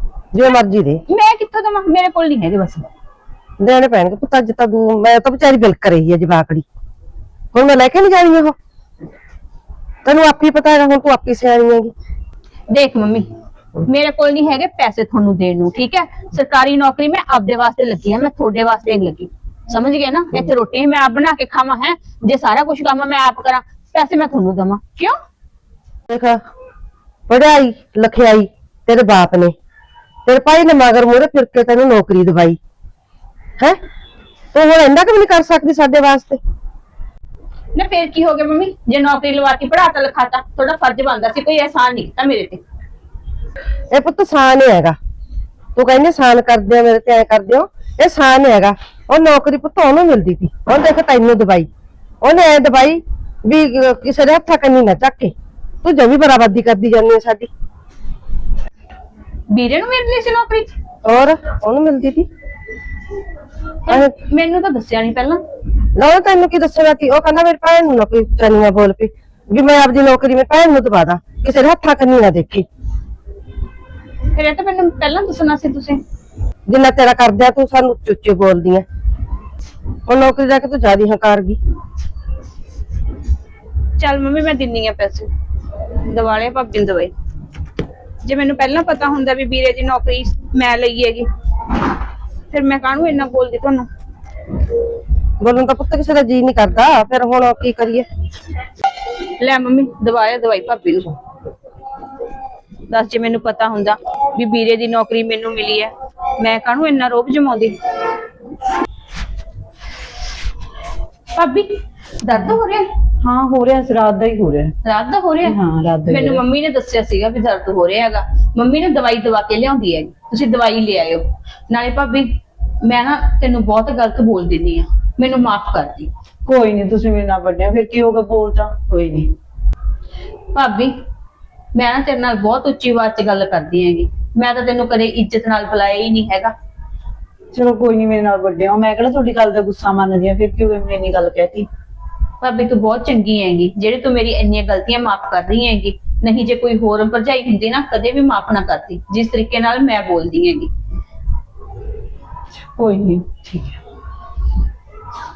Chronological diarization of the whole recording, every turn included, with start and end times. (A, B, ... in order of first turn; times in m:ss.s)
0:00.3-0:01.0 A
0:01.1-0:02.9 B
0:03.6-0:06.6 A
0:07.5-0:08.5 A
0:10.0-0:11.9 A
0:12.7-0:13.3 B
0:13.8-0:25.1 B
0:26.1-0:26.4 A
0:27.3-0:29.5 A
0:30.2-0:32.6 A
0:34.5-0:36.4 A
0:37.7-0:42.6 B
0:43.9-0:45.0 A
0:45.8-0:51.7 A
0:52.2-0:57.5 A
0:59.5-1:00.7 B
1:01.0-1:02.3 A
1:03.8-1:05.4 B
1:05.9-1:12.7 A
1:14.3-1:16.0 B
1:16.7-1:18.8 A
1:20.0-1:21.6 A
1:24.0-1:25.3 B
1:26.0-1:27.1 B
1:28.2-1:31.3 B
1:32.5-1:33.9 B
1:35.4-1:38.1 A
1:39.4-1:41.2 B
1:42.9-1:47.7 B
1:51.3-1:52.8 B
1:53.2-1:54.7 C
1:54.8-1:55.6 B
1:55.4-1:56.4 C
1:56.1-2:02.3 B
2:02.8-2:06.1 B
2:06.4-2:09.3 C
2:10.5-2:10.9 B
2:11.7-2:16.5 B
2:17.5-2:21.7 C
2:22.4-2:30.7 B
2:32.7-2:33.8 C